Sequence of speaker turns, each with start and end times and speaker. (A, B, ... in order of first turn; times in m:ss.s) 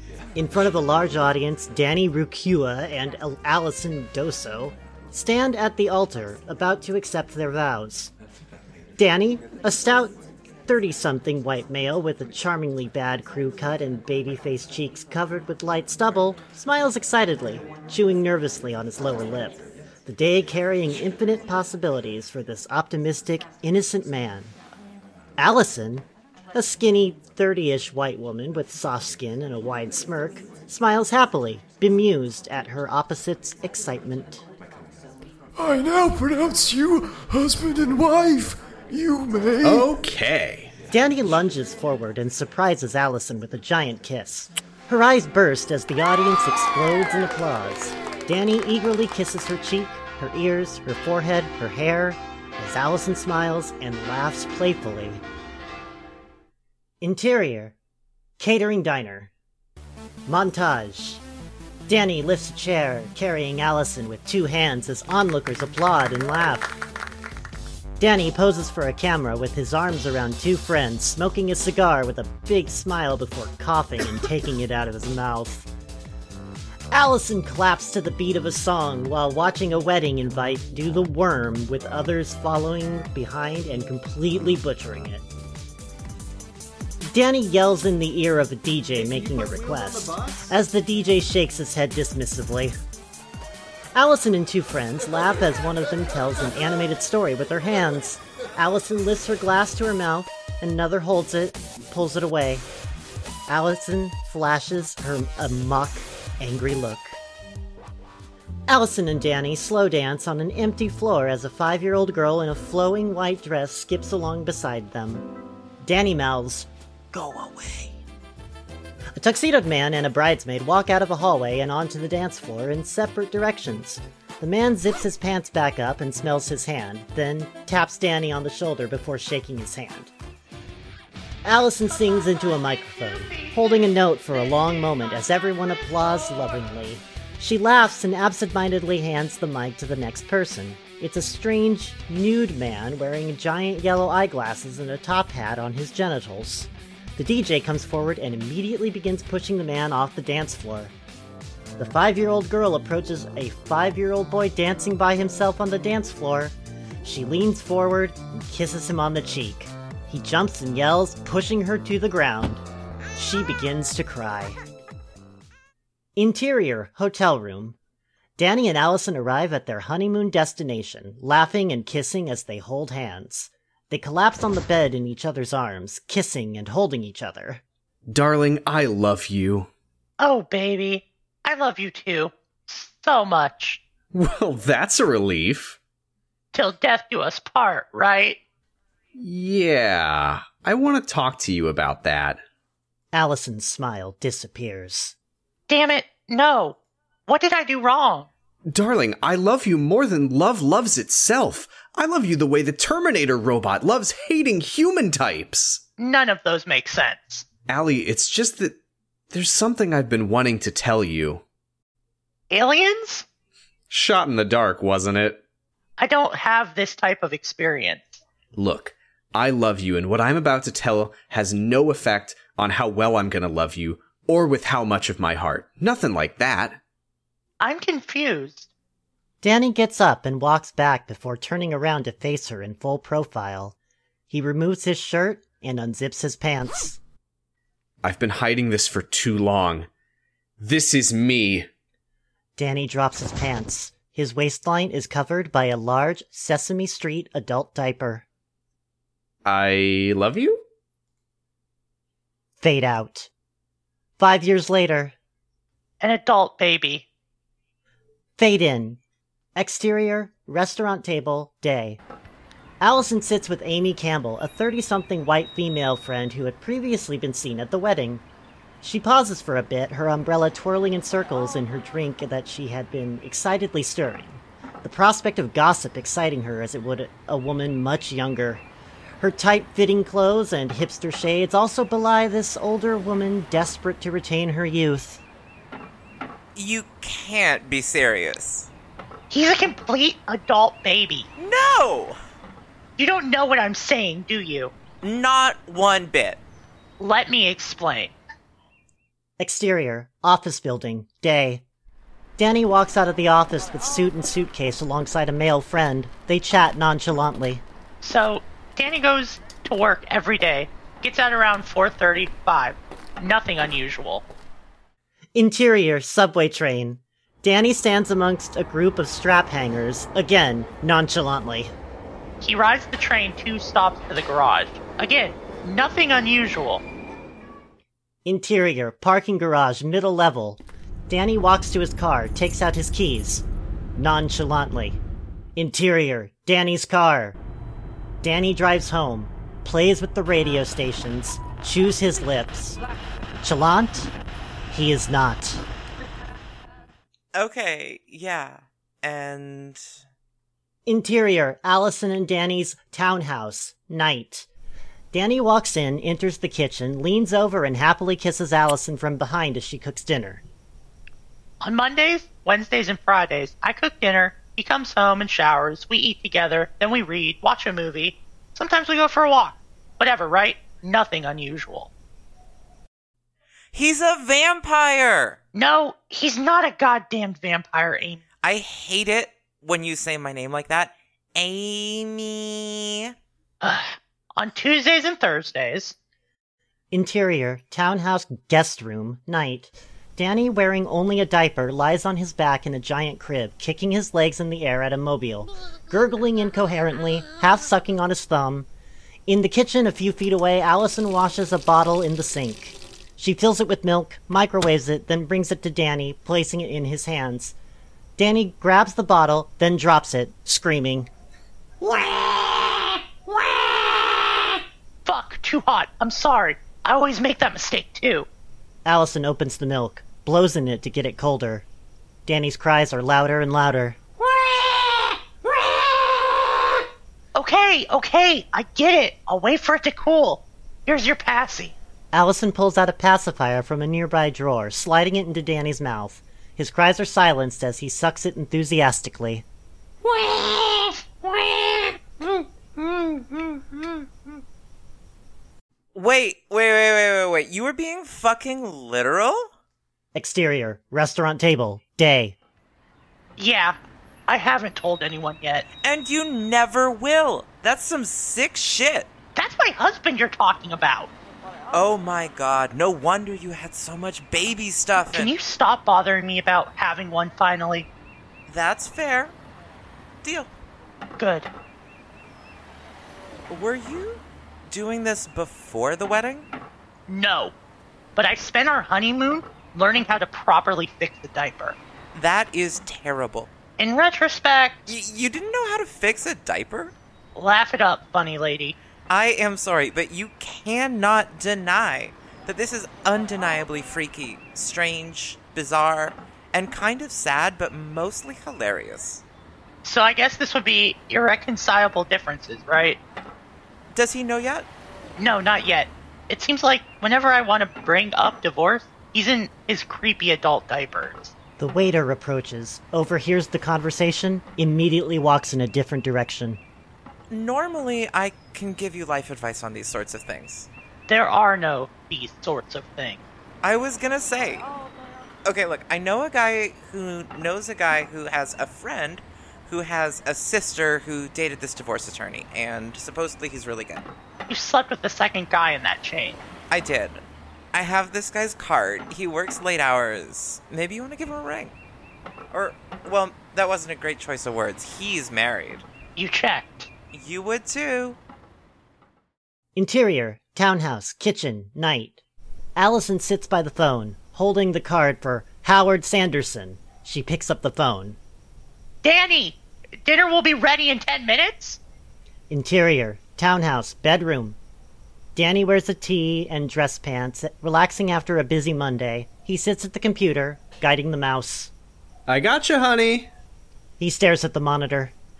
0:00.4-0:08.1 A
0:09.0-0:24.6 A
0:25.4-0:34.4 A
0:35.6-0:39.9 B
0:39.6-0:40.7 C
0:40.9-0:55.2 A
0:57.0-0:57.8 A
0:58.4-0:59.3 A
1:00.3-1:01.2 A
1:01.9-1:06.7 A
1:08.0-1:15.7 A
1:16.9-1:25.3 A
1:27.0-1:32.8 A
1:29.0-1:30.5 C
1:34.0-1:42.7 A
1:43.5-1:47.2 A
1:48.7-1:55.3 A
1:55.8-1:56.7 A
1:57.1-1:57.9 D
1:59.2-2:10.1 A
2:11.4-2:30.9 A
2:13.1-2:13.7 D
2:31.8-2:42.6 A
2:43.2-2:44.6 A
2:46.2-2:47.8 A
2:48.4-2:57.6 A
2:58.1-2:59.7 C
3:00.2-3:03.8 D
3:04.1-3:05.8 C
3:06.5-3:08.4 D
3:09.2-3:12.4 C
3:13.1-3:15.2 A
3:15.7-3:18.3 D
3:18.7-3:25.8 C
3:26.0-3:27.5 D
3:27.7-3:28.8 C
3:29.3-3:31.4 C
3:32.5-3:33.2 D
3:33.9-3:35.4 C
3:36.0-3:38.2 D
3:38.6-3:46.8 C
3:47.6-3:48.7 D
3:49.4-3:53.8 A
3:54.3-3:57.0 A
3:58.0-3:59.9 C
4:00.6-4:01.7 C
4:02.6-4:08.2 A
4:09.4-4:10.6 C
4:12.6-4:13.3 A
4:14.2-4:15.2 A
4:16.0-4:17.1 D
4:18.4-4:19.0 A
4:19.6-4:22.0 A
4:22.8-4:28.2 A
4:28.8-4:38.6 A
4:39.2-4:45.2 A
4:46.6-4:48.7 E
4:49.3-4:51.3 D
4:51.4-4:52.2 E
4:53.0-4:54.7 D
4:55.0-4:56.4 E
4:57.0-4:58.1 D
4:59.4-5:01.6 A
5:02.4-5:07.6 A
5:08.0-5:14.2 D
5:15.4-5:21.7 A
5:22.4-5:26.8 D
5:28.2-5:35.0 A
5:35.6-5:37.4 A
5:38.2-5:42.8 A
5:43.4-5:44.1 A
5:44.7-5:45.6 A
5:47.4-5:49.8 E
5:50.9-5:54.5 A
5:55.1-6:00.4 A
6:01.6-6:11.9 D
6:13.7-6:15.4 E
6:15.6-6:18.2 D
6:18.4-6:23.1 E
6:23.6-6:26.0 D
6:26.9-6:38.7 A
6:39.3-6:47.6 A
6:48.2-6:51.1 A
6:55.0-6:58.3 D
6:58.8-7:01.6 A
7:02.3-7:04.0 A
7:07.4-7:11.8 D
7:12.1-7:19.4 A
7:20.0-7:24.0 E
7:26.0-7:29.5 E
7:30.2-7:32.4 A
7:33.4-7:35.7 D
7:35.8-7:39.1 E
7:39.4-7:41.1 D
7:41.7-7:45.3 E
7:45.1-7:47.9 D
7:48.5-7:49.4 E
7:50.2-7:50.5 E
7:51.2-7:51.5 D
7:53.5-7:56.5 E
7:57.1-7:57.5 D
7:58.2-8:01.8 D
8:02.1-8:03.5 E
8:03.8-8:04.8 D
8:04.9-8:06.9 E
8:07.4-8:08.8 D
8:09.1-8:19.2 E
8:19.8-8:23.0 D
8:23.9-8:24.7 E
8:25.2-8:31.3 D
8:31.6-8:36.6 A
8:37.3-8:40.7 E
8:41.1-8:43.2 D
8:43.6-8:44.7 E
8:45.4-8:54.1 E
8:54.5-8:56.4 D
8:56.7-9:01.8 E
9:02.5-9:05.8 E
9:06.2-9:06.9 D
9:07.1-9:08.2 E
9:09.8-9:12.2 A
9:12.8-9:18.2 A
9:19.0-9:21.8 D
9:22.5-9:24.6 A
9:25.4-9:31.7 A
9:32.3-9:33.3 C
9:34.0-9:35.1 A